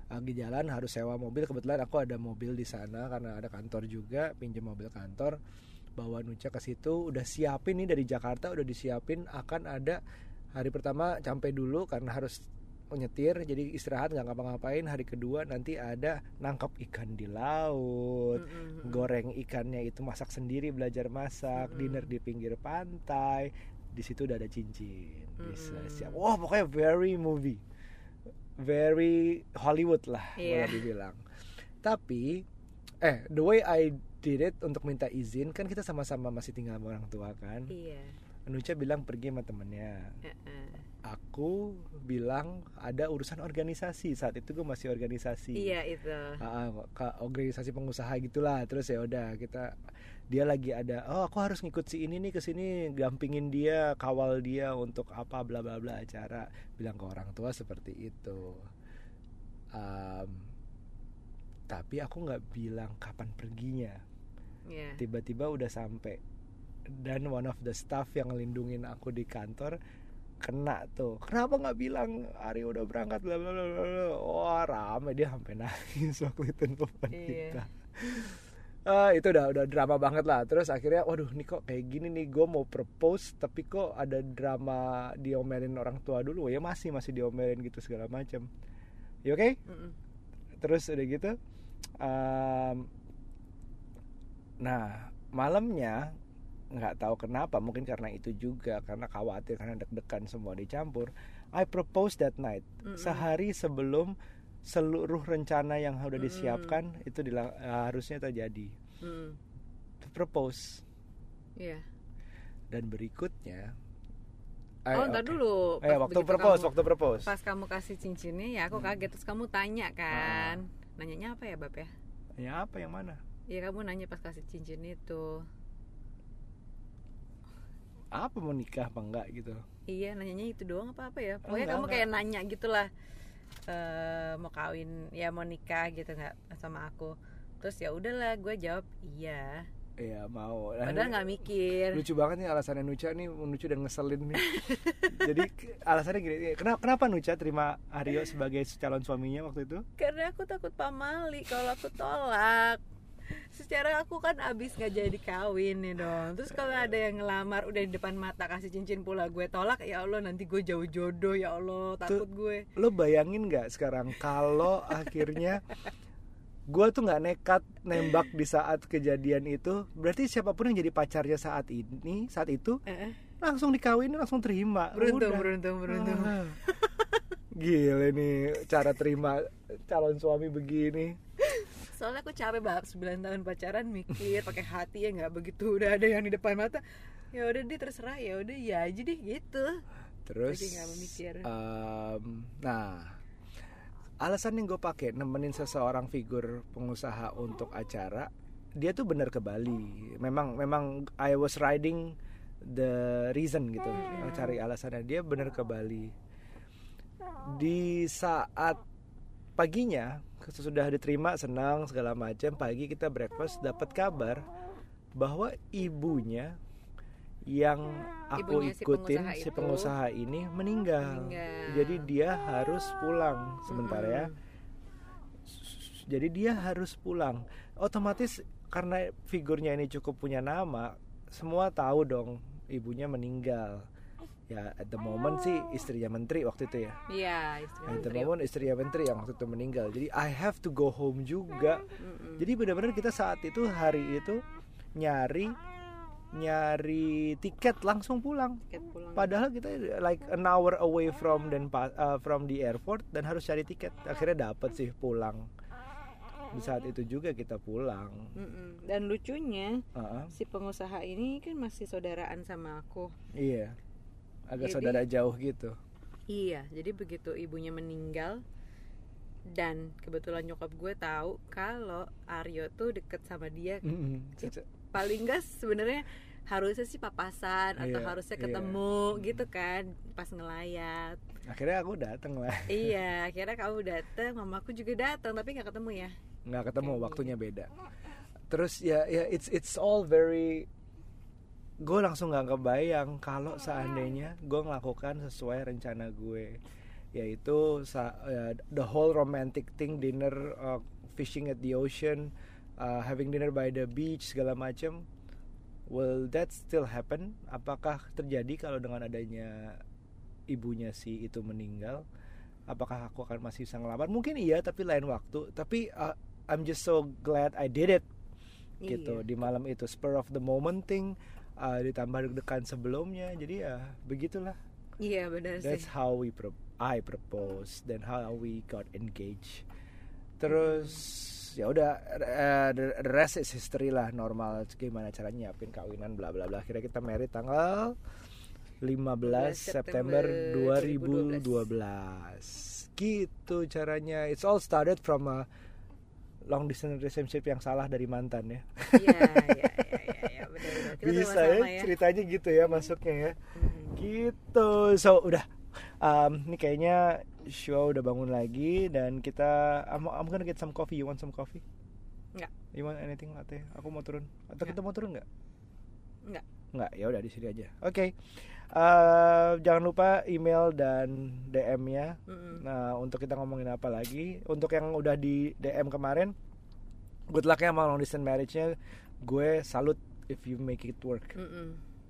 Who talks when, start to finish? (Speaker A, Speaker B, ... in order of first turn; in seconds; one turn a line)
Speaker A: 0.1-5.4
Speaker A: 6.0-10.0
Speaker A: 10.6-12.3
Speaker A: 12.9-27.6
Speaker B: 18.3-19.1
Speaker B: 21.5-22.1
Speaker B: 25.4-26.2
Speaker A: 28.6-31.2
Speaker B: 30.4-30.9
Speaker A: 31.8-32.4
Speaker A: 33.0-37.7
Speaker B: 37.7-38.1
Speaker A: 38.5-40.1
Speaker B: 40.2-40.8
Speaker A: 41.0-45.7
Speaker B: 45.5-46.4
Speaker A: 46.4-49.8
Speaker A: 50.3-58.7
Speaker A: 59.7-60.5
Speaker A: 61.7-64.0
Speaker B: 64.7-65.0
Speaker A: 65.0-66.2
Speaker A: 67.0-69.8
Speaker A: 70.4-88.5
Speaker B: 77.1-77.7
Speaker A: 89.2-89.6
Speaker B: 89.7-90.0
Speaker A: 90.6-91.3
Speaker A: 92.0-92.9
Speaker A: 94.6-96.0
Speaker A: 96.7-104.1
Speaker B: 102.8-103.3
Speaker A: 104.6-108.7
Speaker B: 106.2-106.8
Speaker B: 109.0-109.4
Speaker A: 110.0-110.8
Speaker B: 111.6-111.8
Speaker A: 112.7-113.7
Speaker A: 114.8-117.3
Speaker B: 114.9-121.9
Speaker A: 120.1-120.6
Speaker A: 122.4-123.2
Speaker B: 123.5-125.4
Speaker A: 128.1-129.6
Speaker B: 129.9-132.9
Speaker A: 131.4-132.1
Speaker B: 133.7-139.7
Speaker A: 140.0-141.2
Speaker B: 140.8-142.0
Speaker A: 141.9-144.4
Speaker B: 144.4-145.4
Speaker A: 145.1-149.8
Speaker B: 150.0-152.8
Speaker B: 153.5-162.7
Speaker A: 162.8-165.6
Speaker A: 166.7-172.8
Speaker B: 172.9-173.2
Speaker A: 173.4-176.6
Speaker B: 174.9-177.2
Speaker A: 177.5-181.2
Speaker B: 181.4-186.8
Speaker B: 187.3-189.8
Speaker A: 190.2-193.2
Speaker B: 190.4-191.5
Speaker A: 194.2-206.1
Speaker B: 203.9-204.6
Speaker A: 207.4-208.8
Speaker A: 209.6-214.4
Speaker A: 215.2-216.5
Speaker A: 217.5-224.3
Speaker B: 218.3-219.9
Speaker B: 221.0-222.1
Speaker B: 223.7-224.4
Speaker A: 225.4-233.8
Speaker A: 234.5-237.0
Speaker B: 237.1-238.3
Speaker A: 237.8-241.8
Speaker B: 242.0-242.5
Speaker A: 242.4-244.4
Speaker A: 244.9-245.6
Speaker A: 246.3-248.6
Speaker B: 248.7-249.3
Speaker A: 249.2-255.5
Speaker A: 256.5-258.3
Speaker B: 258.4-263.1
Speaker A: 259.9-260.3
Speaker A: 263.3-263.8
Speaker A: 264.5-265.8
Speaker B: 264.6-265.0
Speaker B: 266.3-268.4
Speaker B: 269.5-273.9
Speaker A: 273.8-274.6
Speaker B: 274.4-281.2
Speaker A: 277.8-279.4
Speaker A: 281.4-282.9
Speaker B: 282.7-286.1
Speaker A: 286.4-287.7
Speaker B: 286.8-287.3
Speaker A: 288.5-290.7
Speaker A: 291.8-296.6
Speaker A: 297.1-305.0
Speaker A: 305.9-309.8
Speaker A: 310.5-312.0
Speaker A: 312.7-318.1
Speaker B: 318.8-319.3
Speaker A: 318.9-324.6
Speaker B: 325.0-325.9
Speaker A: 325.6-329.6
Speaker A: 330.4-338.0
Speaker B: 330.5-331.0
Speaker A: 338.8-345.4
Speaker B: 339.2-341.6
Speaker A: 346.5-353.4
Speaker B: 348.9-351.9
Speaker B: 353.5-354.0
Speaker A: 353.9-361.6
Speaker A: 362.7-365.2
Speaker A: 366.7-376.3
Speaker B: 372.3-372.6
Speaker A: 377.3-381.4
Speaker B: 381.3-381.8